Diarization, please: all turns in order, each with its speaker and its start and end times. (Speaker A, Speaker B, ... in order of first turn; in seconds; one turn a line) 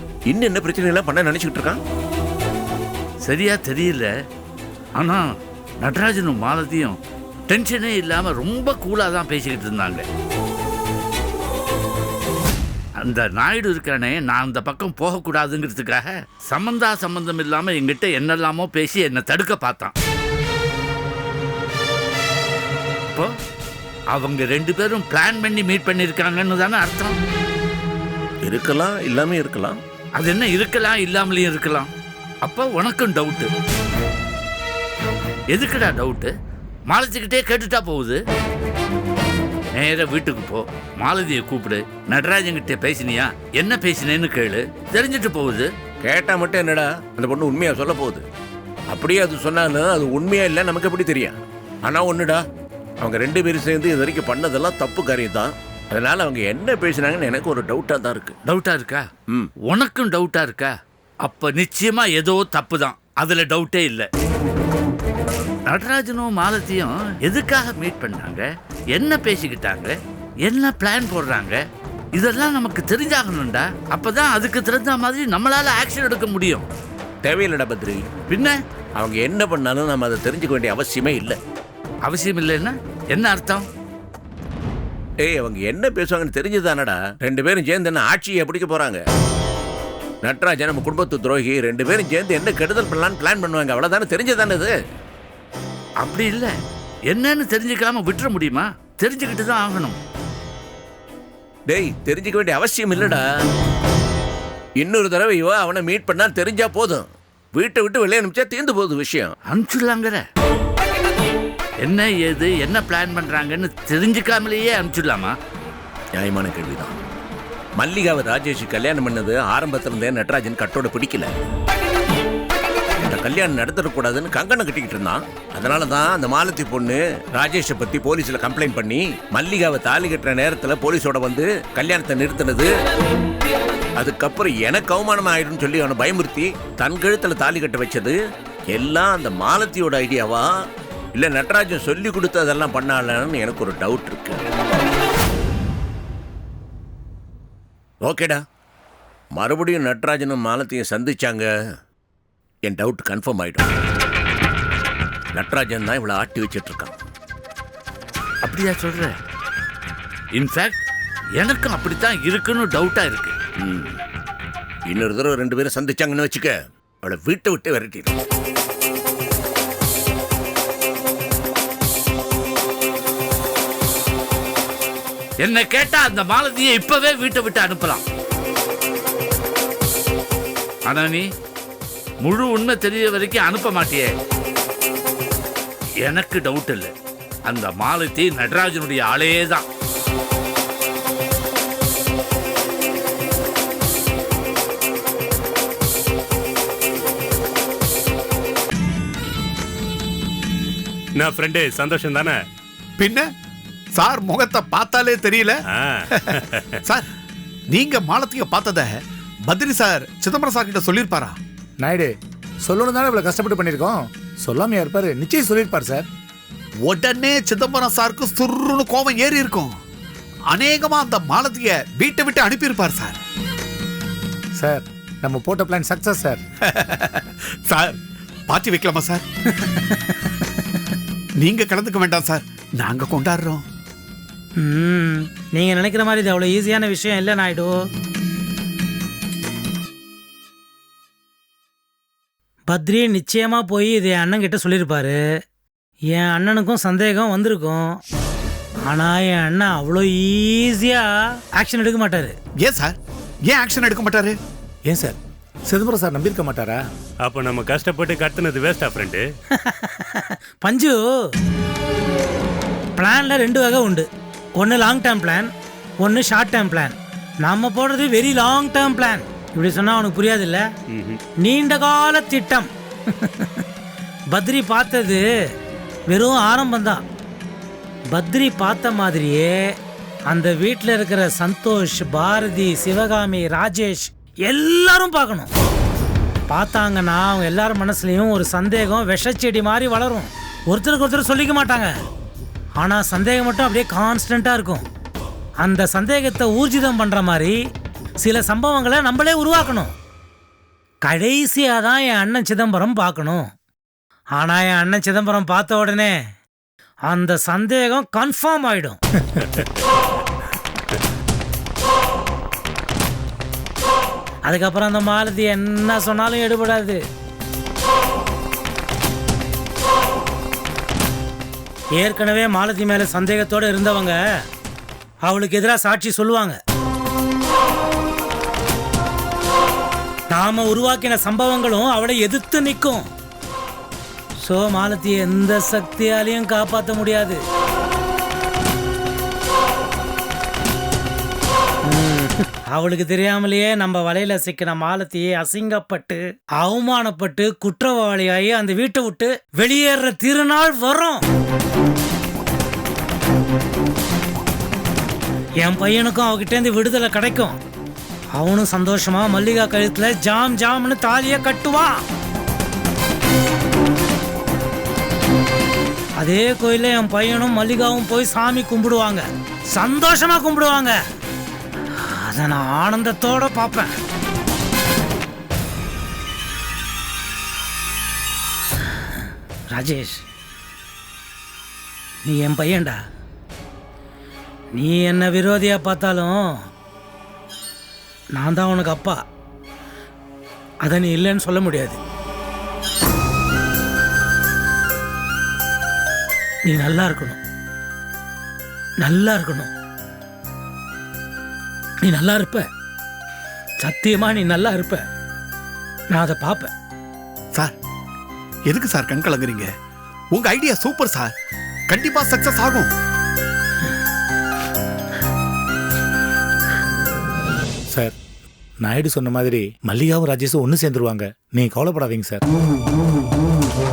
Speaker A: 0.3-1.8
Speaker B: 3.2-4.1
Speaker B: 5.0-5.3
Speaker B: 5.8-10.0
Speaker B: 13.0-19.9
Speaker B: 24.1-27.1
Speaker A: 28.4-29.8
Speaker B: 30.2-31.9
Speaker B: 32.4-33.5
Speaker B: 35.5-36.3
Speaker B: 36.9-38.2
Speaker B: 39.8-45.7
Speaker A: 46.0-48.2
Speaker A: 48.9-52.4
Speaker A: 53.0-58.4
Speaker B: 58.4-59.0
Speaker B: 59.7-64.1
Speaker B: 65.7-71.6
Speaker B: 72.1-76.6
Speaker A: 77.2-78.0
Speaker A: 79.0-81.4
Speaker B: 82.0-83.6
Speaker A: 85.2-89.0
Speaker A: 90.2-94.7
Speaker B: 96.0-96.5
Speaker B: 97.1-100.0
Speaker A: 101.7-103.2
Speaker A: 104.8-109.3
Speaker B: 109.5-110.2
Speaker B: 111.8-115.3
Speaker A: 116.2-117.0
Speaker A: 117.8-121.3
Speaker A: 123.0-132.7
Speaker A: 134.0-138.2
Speaker A: 138.7-140.4
Speaker A: 141.2-144.4
Speaker A: 148.1-148.4
Speaker A: 149.3-151.5
Speaker A: 152.7-153.7
Speaker A: 155.3-156.9
Speaker B: 158.4-159.1
Speaker B: 160.3-160.8
Speaker B: 161.4-163.3
Speaker A: 164.9-168.1
Speaker B: 175.4-178.0
Speaker B: 180.9-181.2
Speaker B: 182.2-184.1
Speaker B: 186.0-186.9
Speaker B: 187.4-189.7
Speaker C: 201.2-202.3
Speaker D: 203.0-203.2
Speaker D: 203.9-205.5
Speaker C: 205.7-206.7
Speaker D: 207.7-208.9
Speaker D: 209.5-211.3
Speaker E: 211.8-216.1
Speaker D: 216.8-219.7
Speaker D: 220.5-223.2
Speaker E: 224.6-226.4
Speaker D: 226.7-228.0
Speaker D: 228.5-229.2
Speaker F: 229.6-230.2
Speaker D: 231.4-233.6
Speaker F: 234.6-237.7
Speaker F: 242.7-245.2
Speaker F: 246.1-248.0
Speaker F: 248.9-251.0
Speaker F: 251.6-252.3
Speaker D: 252.6-253.0
Speaker D: 253.5-254.3
Speaker E: 254.9-255.2
Speaker E: 255.7-256.8
Speaker C: 257.2-259.2
Speaker F: 259.6-261.0
Speaker F: 263.0-264.1
Speaker F: 264.6-265.5
Speaker F: 266.0-270.6
Speaker C: 270.9-271.2
Speaker F: 271.4-272.7
Speaker F: 273.2-273.6
Speaker F: 274.3-275.2
Speaker F: 276.1-277.0
Speaker F: 278.1-279.6
Speaker F: 280.3-285.5
Speaker F: 286.5-291.9
Speaker F: 292.8-294.8
Speaker F: 295.6-297.6
Speaker F: 298.2-299.9
Speaker F: 301.0-303.5
Speaker F: 304.4-306.1
Speaker F: 307.1-309.0
Speaker F: 314.5-317.0
Speaker F: 322.0-324.2
Speaker F: 325.2-326.6
Speaker F: 330.3-333.0
Speaker F: 334.4-337.4
Speaker F: 341.8-351.2
Speaker F: 355.6-357.6
Speaker F: 358.4-361.9
Speaker F: 366.2-369.2
Speaker F: 369.7-370.9
Speaker F: 372.0-373.9
Speaker F: 379.7-380.2
Speaker F: 382.2-382.9
Speaker F: 384.8-386.4
Speaker F: 388.4-389.2
Speaker F: 390.8-392.0
Speaker F: 396.6-397.4
Speaker F: 399.0-399.7
Speaker F: 402.0-402.6
Speaker F: 403.8-405.0
Speaker F: 406.1-406.7
Speaker D: 408.7-409.7
Speaker D: 410.3-411.3
Speaker D: 411.9-412.9
Speaker E: 418.8-422.4